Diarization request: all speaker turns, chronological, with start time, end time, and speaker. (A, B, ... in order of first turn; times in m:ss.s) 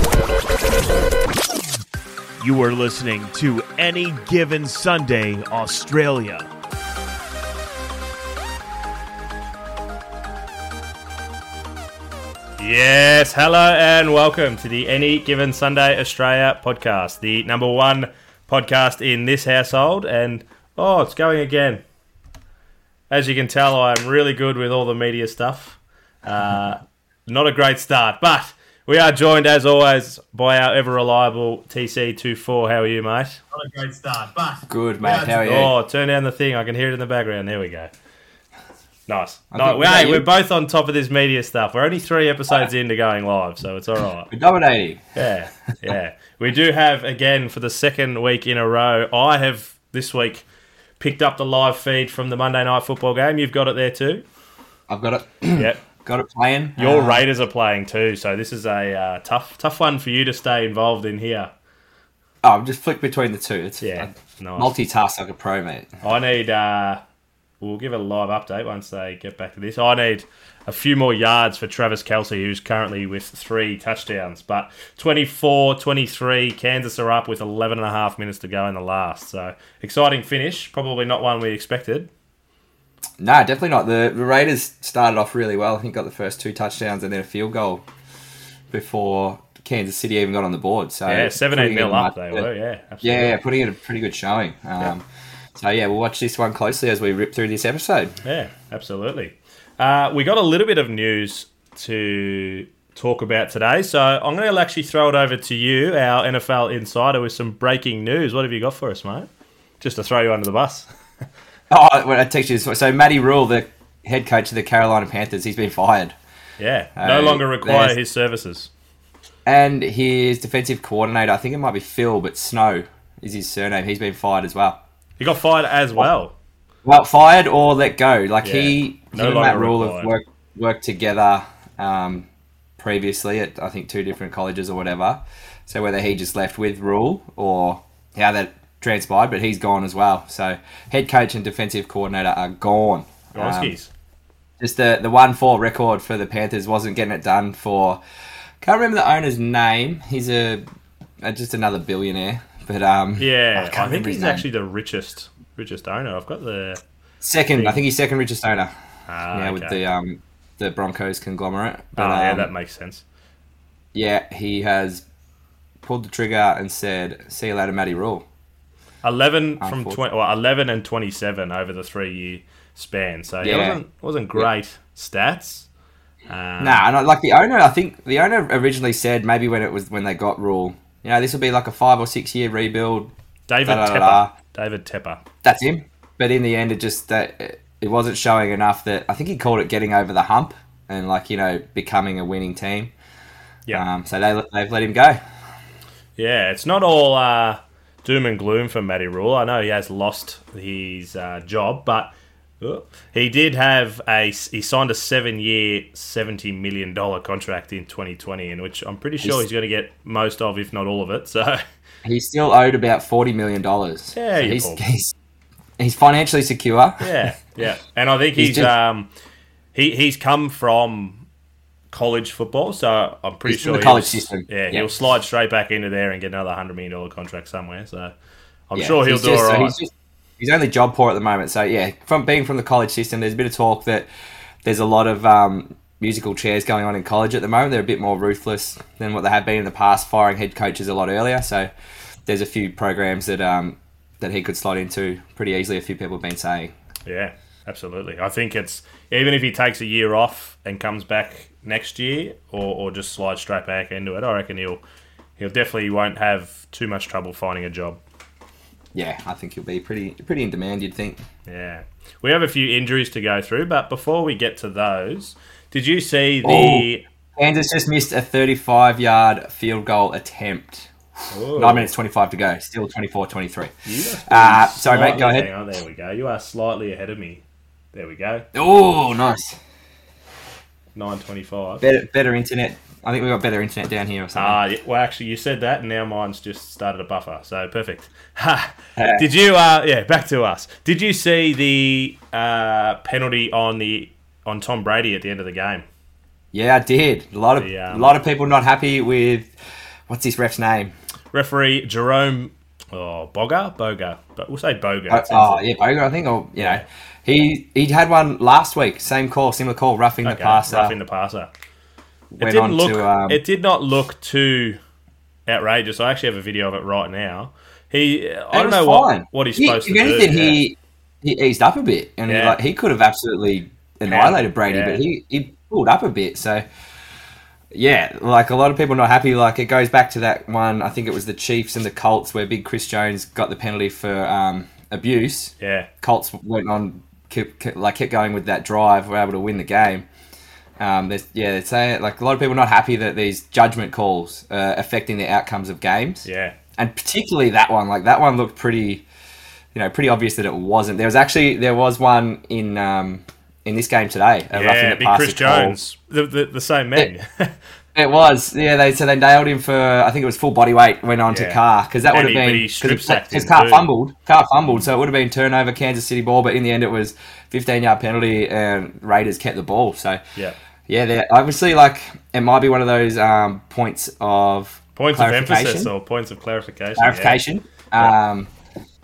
0:02.4-0:06.4 A
0:12.6-0:21.8 B
0:23.1-0:37.9 B
0:34.7-0:35.7 C
0:39.1-0:44.3 B
0:39.5-0:40.2 C
0:44.3-0:45.0 C
0:45.1-0:50.4 B
0:51.0-0:54.2 B
0:54.9-0:57.2 C
0:55.5-0:55.8 B
0:56.8-1:01.5 B
1:02.4-1:05.9 C
1:03.8-1:04.7 B
1:06.0-1:07.0 B
1:07.6-1:22.1 B
1:23.2-1:27.8 C
1:28.7-1:32.5 C
1:31.1-1:33.4 B
1:33.0-1:35.0 C
1:35.6-1:38.1 C
1:38.2-1:49.3 B
1:49.8-1:50.9 B
1:51.7-1:56.1 C
1:56.6-1:58.7 B
1:57.0-1:58.0 C
1:59.4-2:04.8 C
2:05.2-2:06.4 B
2:06.8-2:12.3 C
2:08.4-2:10.1 B
2:12.8-2:23.7 C
2:23.3-2:23.9 B
2:24.6-2:28.0 C
2:28.6-2:30.6 C
2:31.2-2:34.4 C
2:33.2-2:36.8 B
2:37.2-2:38.7 C
2:37.5-2:37.8 B
2:39.1-2:39.8 B
2:39.3-2:42.5 C
2:41.9-2:43.0 B
2:43.9-2:45.0 C
2:45.8-2:48.2 C
2:49.0-2:55.7 B
2:49.6-2:50.0 C
2:53.4-2:53.8 C
2:56.3-2:56.8 B
2:56.6-3:03.1 C
3:03.5-3:05.2 B
3:03.6-3:04.3 C
3:05.4-3:12.9 C
3:13.7-3:15.2 C
3:16.2-3:31.6 B
3:32.0-3:35.1 C
3:34.1-3:34.8 B
3:35.8-3:37.1 C
3:37.0-3:39.1 B
3:38.4-3:38.7 C
3:39.7-3:41.2 B
3:41.9-3:48.1 B
3:43.4-3:44.9 C
3:48.7-3:49.7 B
3:48.8-3:54.1 C
3:54.6-4:01.7 C
4:02.3-4:06.7 C
4:07.0-4:14.8 B
4:15.4-4:18.0 B
4:18.9-4:21.2 C
4:21.5-4:27.0 B
4:26.4-4:30.9 C
4:31.3-4:31.9 B
4:31.6-4:33.7 C
4:33.8-4:38.5 B
4:34.2-4:35.5 C
4:38.5-4:39.6 C
4:40.9-4:41.8 B
4:41.8-4:44.6 C
4:44.3-4:55.8 B
4:49.0-4:49.2 C
4:56.5-4:59.5 C
4:57.6-4:58.2 B
5:00.1-5:00.9 C
5:01.3-5:05.6 B
5:05.1-5:11.0 C
5:06.6-5:06.8 B
5:10.2-5:11.5 B
5:12.3-5:13.4 C
5:12.4-5:14.8 B
5:15.5-5:20.6 B
5:18.5-5:26.6 C
5:22.3-5:22.6 B
5:24.0-5:25.0 B
5:27.7-5:40.0 C
5:35.6-5:35.9 B
5:40.8-5:49.0 C
5:46.2-5:46.6 B
5:49.7-5:55.8 C
5:54.5-5:57.5 B
5:57.9-6:10.2 C
6:01.3-6:03.9 B
6:10.9-6:15.9 C
6:15.0-6:17.4 B
6:17.0-6:18.5 C